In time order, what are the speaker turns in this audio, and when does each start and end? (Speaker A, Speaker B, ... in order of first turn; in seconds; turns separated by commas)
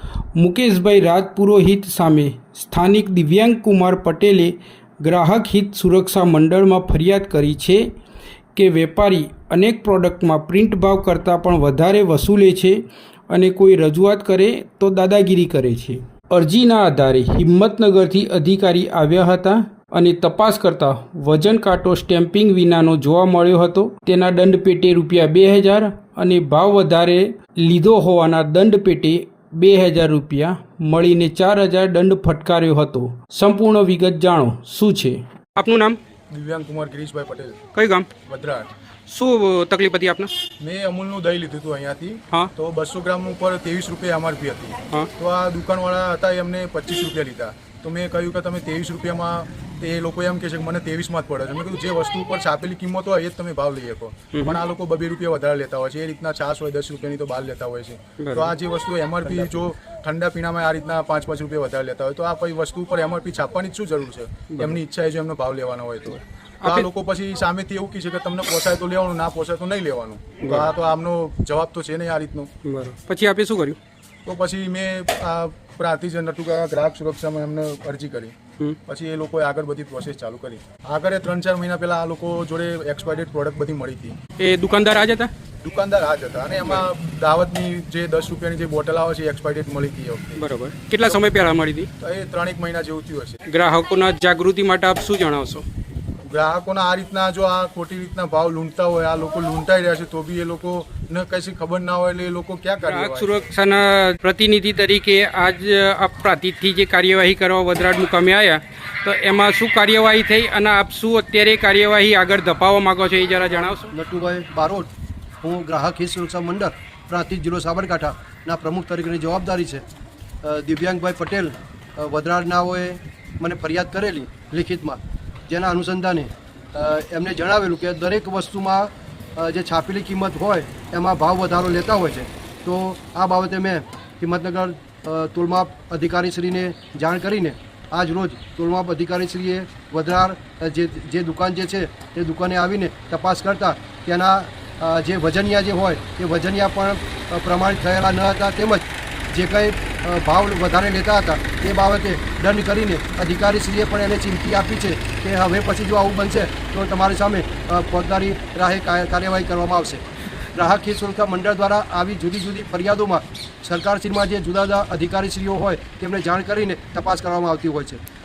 Speaker A: 0.4-7.9, Speaker A: 8.6-36.0, Speaker B: 36.3-37.6, Speaker A: 37.7-38.1, Speaker B: 38.2-38.7, Speaker A: 39.1-40.3, Speaker B: 40.6-72.5, Speaker A: 54.3-54.6, Speaker A: 58.2-58.5, Speaker A: 66.6-66.9, Speaker A: 70.4-70.7, Speaker A: 72.6-73.8, Speaker B: 74.2-78.3, Speaker B: 78.9-84.2, Speaker A: 84.4-85.3, Speaker B: 85.6-90.4, Speaker A: 90.4-91.9, Speaker B: 92.0-93.4, Speaker A: 93.5-95.7, Speaker B: 96.3-103.5, Speaker A: 102.8-113.9, Speaker C: 113.9-114.9, Speaker C: 115.4-119.8, Speaker C: 120.4-160.0, Speaker C: 160.6-168.0